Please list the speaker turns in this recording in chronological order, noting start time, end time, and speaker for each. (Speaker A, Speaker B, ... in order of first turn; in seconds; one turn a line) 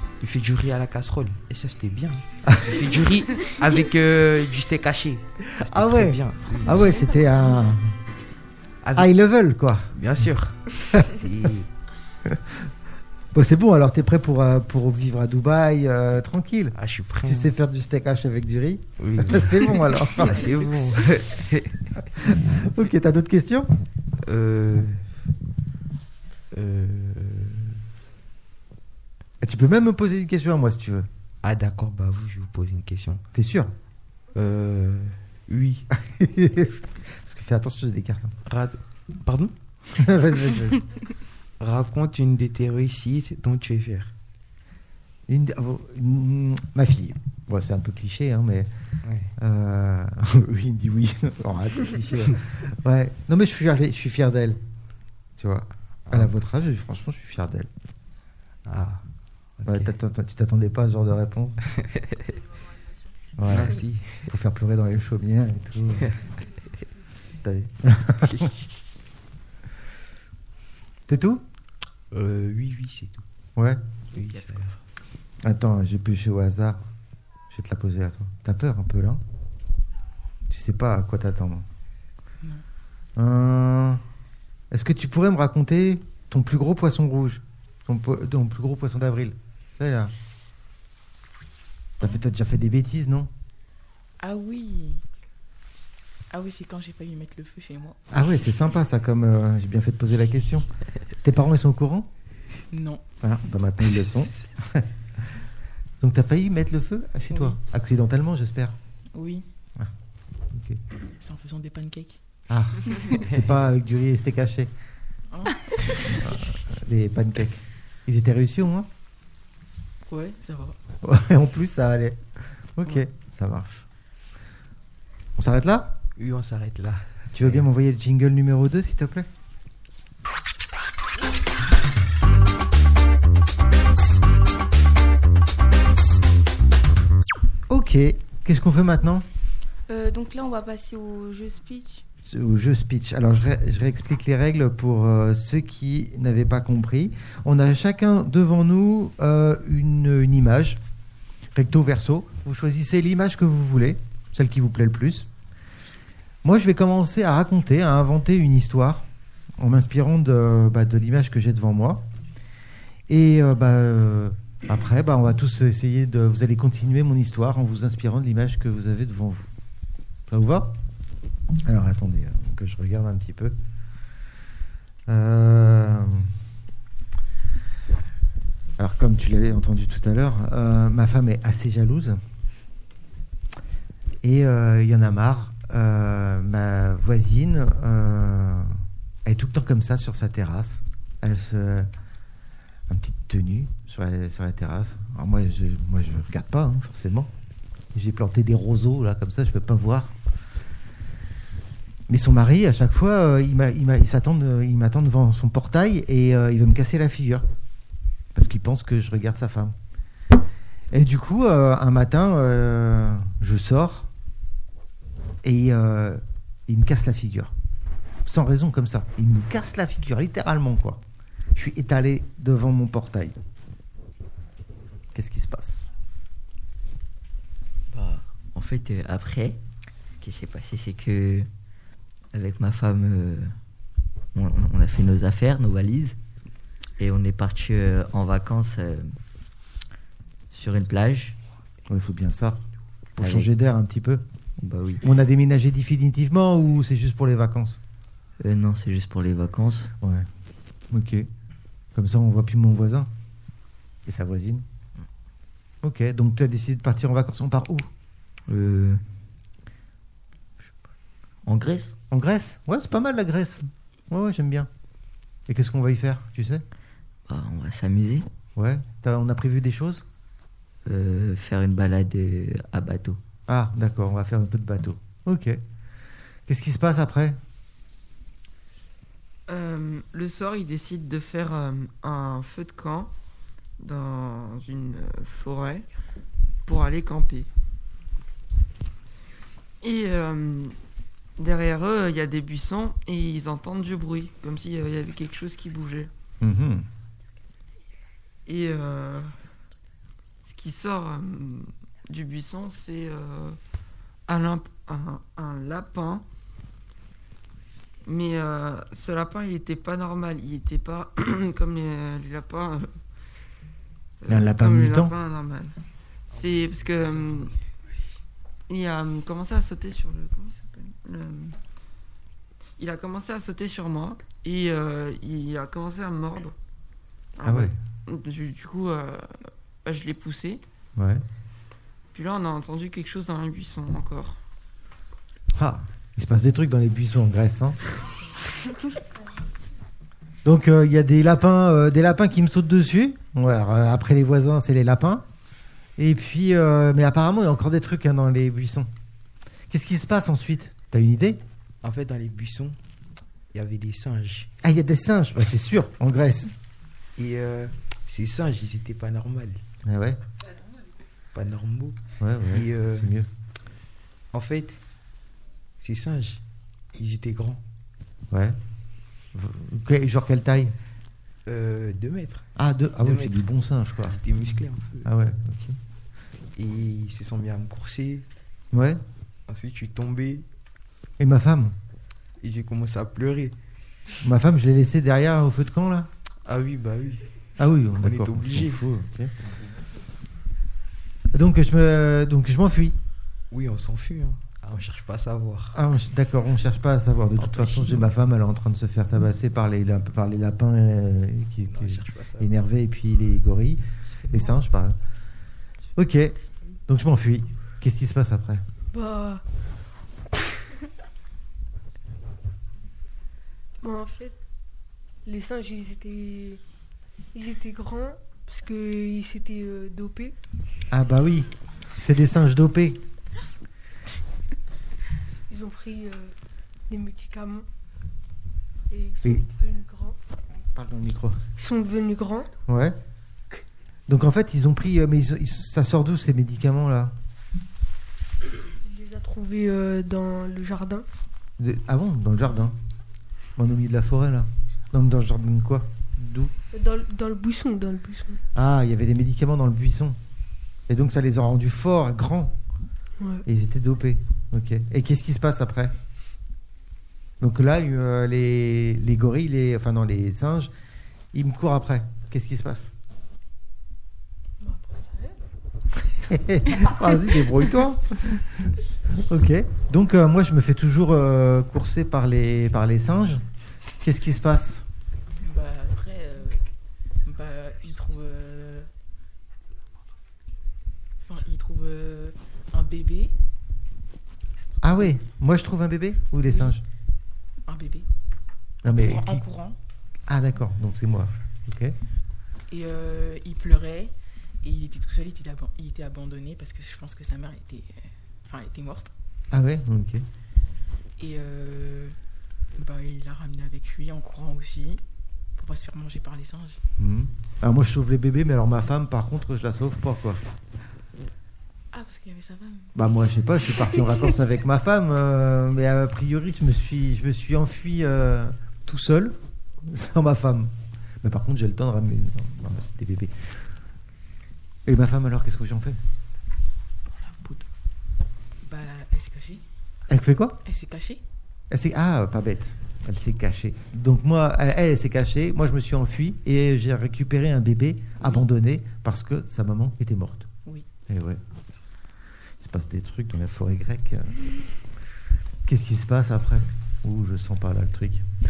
Speaker A: 0.2-7.0
Speaker B: 2.5-2.8
Speaker B: 5.6-7.9
Speaker A: 8.8-9.1
Speaker B: 8.9-9.9
Speaker A: 9.9-11.7
Speaker B: 12.2-12.6
Speaker B: 13.3-20.5
Speaker A: 16.7-17.5
Speaker A: 19.0-22.4
Speaker B: 22.2-23.7
Speaker A: 24.2-25.1
Speaker A: 26.5-27.8
Speaker B: 29.4-31.1
Speaker A: 31.4-33.2
Speaker B: 33.3-33.7
Speaker A: 34.3-35.9
Speaker B: 35.9-38.3
Speaker A: 38.5-39.5
Speaker B: 39.9-40.8
Speaker A: 41.6-44.1
Speaker B: 45.3-48.7
Speaker A: 49.0-49.3
Speaker B: 49.4-54.6
Speaker B: 55.4-57.7
Speaker A: 56.1-56.3
Speaker A: 58.6-59.0
Speaker A: 59.5-59.9
Speaker B: 59.6-61.6
Speaker A: 61.7-62.2
Speaker B: 63.4-66.1
Speaker A: 63.5-64.3
Speaker B: 67.4-68.5
Speaker A: 68.2-68.6
Speaker B: 71.1-71.4
Speaker A: 72.1-73.2
Speaker B: 73.5-73.8
Speaker A: 74.1-74.8
Speaker B: 75.4-76.8
Speaker B: 77.5-79.2
Speaker B: 80.5-81.7
Speaker B: 83.2-84.0
Speaker B: 84.7-90.1
Speaker B: 92.0-93.3
Speaker C: 94.2-95.0
Speaker C: 96.3-98.0
Speaker B: 98.1-100.7
Speaker B: 101.2-102.1
Speaker C: 102.7-103.0
Speaker B: 103.2-104.9
Speaker B: 106.0-108.8
Speaker C: 107.3-107.6
Speaker C: 109.1-109.5
Speaker B: 110.5-110.8
Speaker C: 111.2-112.2
Speaker B: 112.5-114.7
Speaker A: 113.2-113.5
Speaker C: 115.3-116.2
Speaker B: 116.1-118.9
Speaker C: 120.0-120.8
Speaker B: 121.0-123.8
Speaker B: 125.4-126.0
Speaker A: 126.2-127.7
Speaker B: 127.3-129.3
Speaker B: 137.7-139.2
Speaker D: 139.9-142.0
Speaker B: 142.2-150.8
Speaker B: 151.5-155.3
Speaker B: 156.4-159.1
Speaker B: 159.6-162.1
Speaker B: 163.1-169.5
Speaker B: 170.3-170.8
Speaker B: 171.6-173.6
Speaker B: 175.1-176.3
Speaker B: 178.8-182.2
Speaker B: 184.2-191.9
Speaker B: 192.9-197.3
Speaker B: 197.9-200.1
Speaker B: 202.1-207.4
Speaker B: 208.3-209.7
Speaker B: 210.9-214.1
Speaker B: 215.4-217.5
Speaker B: 218.2-221.0
Speaker B: 221.5-223.4
Speaker B: 225.1-225.9
Speaker E: 227.9-229.6
Speaker E: 230.2-231.5
Speaker E: 232.3-233.5
Speaker E: 234.3-236.2
Speaker E: 237.0-239.1
Speaker E: 240.5-241.4
Speaker B: 241.9-242.6
Speaker B: 243.2-244.2
Speaker E: 243.2-243.5
Speaker E: 244.6-245.0
Speaker B: 245.0-247.8
Speaker E: 248.4-249.9
Speaker B: 250.0-250.3
Speaker B: 250.9-251.3
Speaker B: 251.9-253.1
Speaker B: 254.1-254.6
Speaker B: 255.8-257.9
Speaker E: 258.5-259.0
Speaker E: 261.4-261.9
Speaker B: 262.1-264.7
Speaker B: 265.5-266.6
Speaker E: 267.3-268.3
Speaker B: 268.6-270.0
Speaker E: 270.9-273.2
Speaker B: 273.5-275.6
Speaker B: 276.5-277.4
Speaker F: 279.5-283.1
Speaker F: 283.8-285.9
Speaker F: 286.6-287.5
Speaker F: 289.8-290.8
Speaker F: 291.4-296.1
Speaker B: 296.4-296.9
Speaker F: 298.4-299.4
Speaker F: 300.5-303.6
Speaker F: 304.3-306.2
Speaker F: 308.0-312.9
Speaker F: 314.2-315.8
Speaker B: 314.3-315.1
Speaker F: 316.3-317.5
Speaker F: 318.7-321.6
Speaker F: 322.8-326.5
Speaker F: 327.4-330.6
Speaker B: 327.4-327.7
Speaker B: 330.9-331.2
Speaker F: 332.1-334.4
Speaker B: 335.5-337.9
Speaker B: 340.4-345.2
Speaker B: 346.0-348.9
Speaker B: 349.7-351.4
Speaker A: 351.8-352.8
Speaker A: 353.5-354.5
Speaker B: 354.6-356.5
Speaker A: 357.1-359.6
Speaker B: 359.8-360.2
Speaker A: 361.3-363.1
Speaker B: 362.2-363.3
Speaker A: 364.3-364.8
Speaker A: 365.8-366.4
Speaker A: 366.9-367.6
Speaker B: 368.3-368.6
Speaker B: 369.3-370.7
Speaker A: 371.4-372.4
Speaker B: 372.6-374.2
Speaker A: 373.0-373.4
Speaker A: 374.0-375.1
Speaker B: 375.0-375.8
Speaker A: 376.6-378.2
Speaker B: 378.7-379.0
Speaker A: 379.5-380.4
Speaker B: 381.2-381.8
Speaker A: 382.4-383.6
Speaker B: 384.2-386.1
Speaker A: 386.4-387.3
Speaker B: 387.6-389.3
Speaker A: 388.0-388.8
Speaker B: 391.3-392.9
Speaker A: 393.5-395.8
Speaker B: 395.7-405.0
Speaker A: 397.4-397.9
Speaker A: 401.7-402.5
Speaker B: 405.9-408.6
Speaker G: 408.9-409.4
Speaker G: 413.8-414.4
Speaker G: 415.2-416.6
Speaker G: 417.3-420.4
Speaker B: 420.9-423.0
Speaker G: 425.5-426.3
Speaker G: 426.9-427.6
Speaker G: 428.9-430.2
Speaker B: 430.7-431.4
Speaker G: 431.6-432.5
Speaker B: 432.7-433.0
Speaker B: 434.1-437.1
Speaker G: 438.8-441.1
Speaker B: 441.6-442.8
Speaker B: 443.6-446.5
Speaker G: 446.7-448.4
Speaker B: 448.5-450.2
Speaker B: 450.9-452.6
Speaker G: 453.2-453.4
Speaker B: 453.4-455.9
Speaker B: 457.4-460.7
Speaker B: 461.3-462.9
Speaker G: 464.6-465.4
Speaker B: 466.2-473.4
Speaker B: 474.0-474.8
Speaker C: 475.4-476.7
Speaker C: 477.2-478.9
Speaker C: 481.2-483.3
Speaker B: 484.8-486.8
Speaker C: 486.5-486.8
Speaker C: 487.6-488.1
Speaker C: 488.8-489.8
Speaker B: 488.8-489.4
Speaker B: 490.3-491.9
Speaker C: 492.7-499.1
Speaker B: 499.5-500.2
Speaker C: 501.2-502.2
Speaker C: 502.7-505.0
Speaker C: 505.6-506.8
Speaker B: 507.0-510.4
Speaker C: 511.9-512.9
Speaker B: 512.9-523.6
Speaker B: 524.9-526.0
Speaker C: 528.6-529.6
Speaker B: 530.1-530.6
Speaker C: 530.6-531.2
Speaker B: 531.7-540.5
Speaker B: 541.1-541.4
Speaker B: 542.6-544.5
Speaker B: 545.6-548.3